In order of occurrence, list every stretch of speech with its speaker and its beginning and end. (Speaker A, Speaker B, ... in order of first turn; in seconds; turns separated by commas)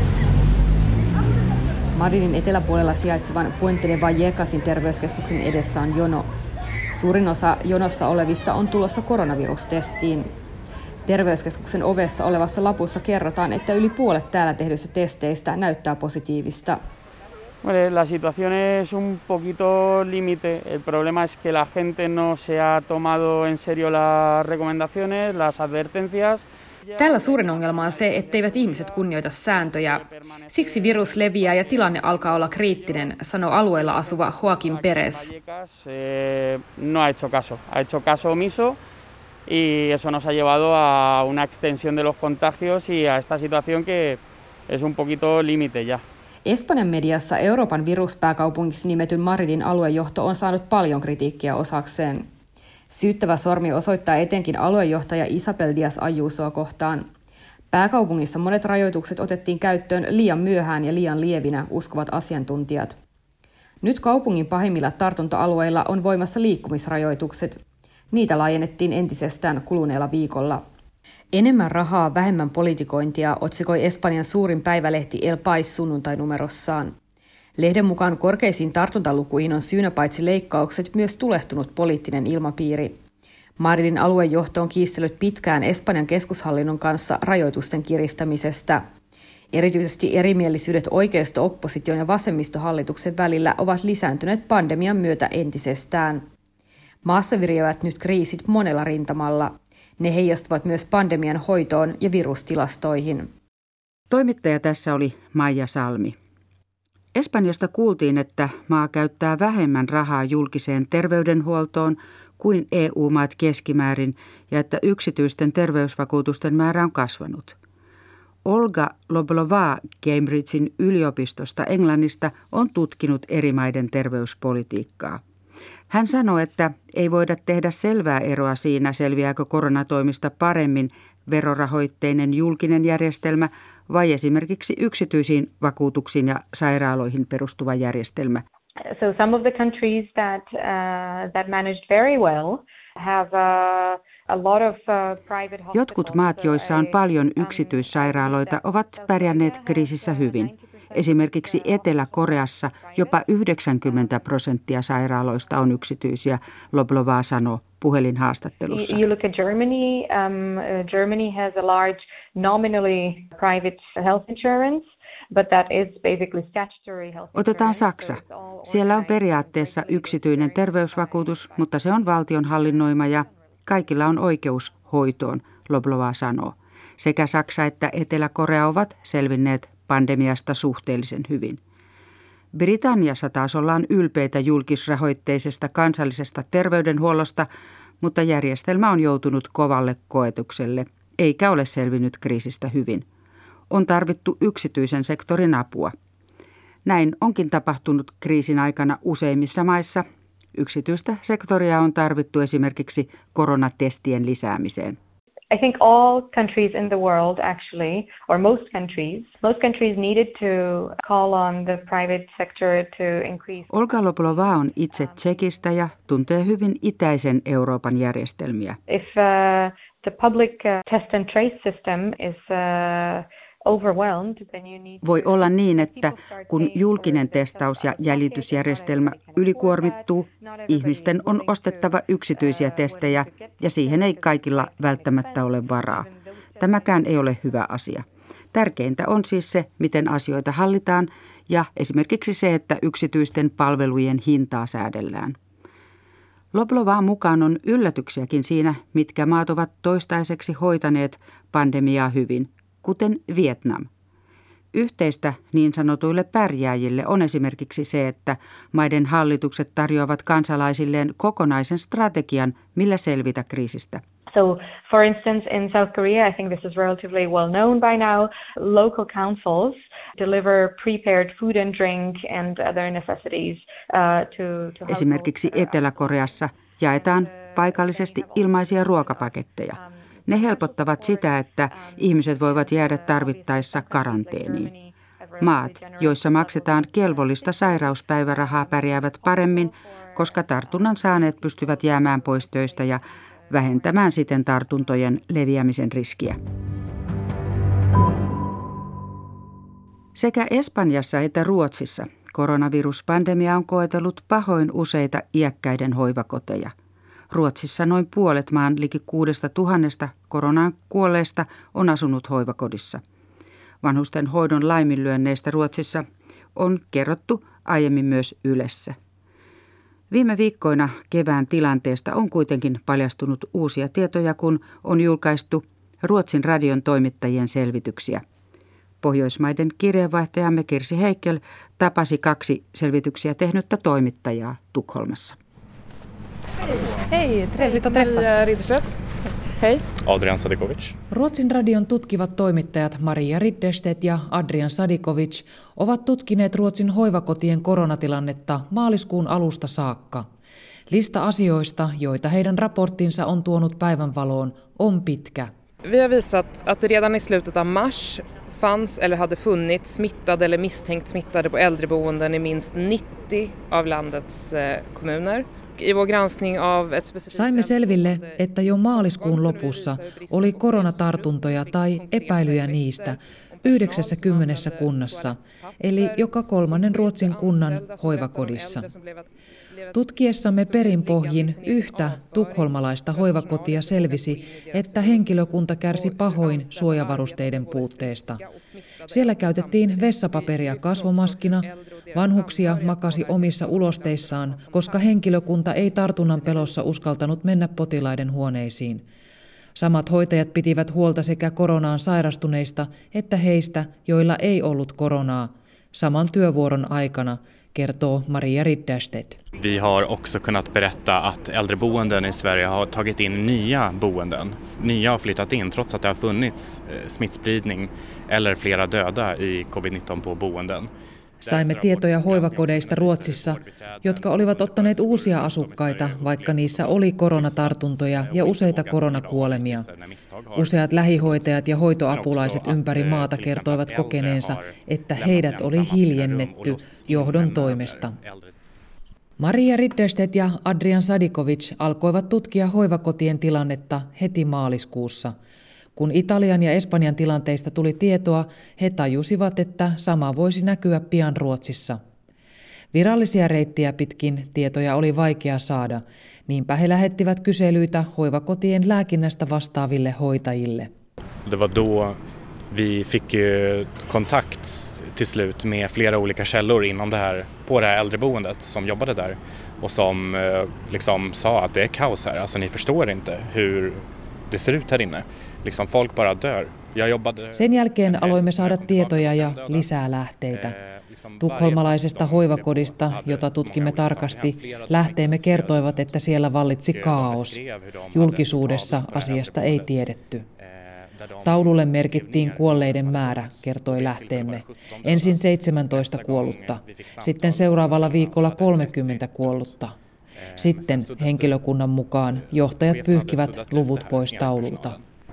Speaker A: 1.9-6.3, Speaker A: 6.9-10.3, Speaker A: 11.1-16.8, Speaker B: 17.6-29.1, Speaker A: 27.0-35.3, Speaker B: 29.8-33.1, Speaker B: 33.8-38.8, Speaker B: 39.5-46.0, Speaker A: 46.5-52.3, Speaker A: 52.9-57.1, Speaker A: 57.7-63.0, Speaker A: 63.8-67.6, Speaker A: 68.1-70.6, Speaker A: 71.3-77.0, Speaker A: 77.6-83.0, Speaker A: 83.6-88.9, Speaker A: 89.5-96.3, Speaker A: 97.0-103.3, Speaker C: 104.1-106.2, Speaker C: 107.1-117.6, Speaker C: 118.5-125.2, Speaker C: 125.9-138.4, Speaker D: 138.9-153.2, Speaker C: 145.7-159.0, Speaker D: 153.8-154.2, Speaker D: 158.7-173.3, Speaker C: 167.3-181.6, Speaker C: 182.5-187.5, Speaker C: 188.0-193.1, Speaker C: 193.7-195.9, Speaker C: 196.8-205.0, Speaker D: 205.5-215.6, Speaker C: 213.7-218.8, Speaker D: 218.9-237.6, Speaker C: 225.0-236.1, Speaker C: 236.6-245.4, Speaker C: 246.5-253.9, Speaker C: 254.7-264.0, Speaker D: 264.3-276.2, Speaker C: 274.9-284.7, Speaker D: 276.9-293.0, Speaker C: 285.4-296.4, Speaker D: 293.6-294.1, Speaker C: 300.1-306.7, Speaker C: 307.3-313.0, Speaker C: 313.8-319.0, Speaker C: 320.1-328.2, Speaker C: 329.0-335.4, Speaker E: 336.7-339.8, Speaker F: 337.5-338.3, Speaker G: 340.0-341.0, Speaker F: 341.1-350.2, Speaker F: 350.9-355.5, Speaker E: 355.8-379.2, Speaker F: 367.3-378.9, Speaker F: 379.9-388.4, Speaker E: 380.6-385.3, Speaker E: 385.9-395.1, Speaker F: 389.1-399.0, Speaker E: 395.9-396.7, Speaker F: 399.8-409.4, Speaker G: 409.6-420.9, Speaker F: 421.4-429.9, Speaker G: 421.4-431.6, Speaker F: 430.6-438.1, Speaker G: 432.1-438.5, Speaker F: 439.4-445.3, Speaker F: 446.0-452.0, Speaker F: 452.9-460.9, Speaker G: 461.4-479.9, Speaker F: 477.6-480.7, Speaker G: 480.5-486.1, Speaker F: 481.4-487.6, Speaker G: 486.9-499.7, Speaker F: 488.1-490.4, Speaker F: 491.4-499.9, Speaker G: 500.4-501.6, Speaker F: 500.6-505.0, Speaker G: 502.7-505.0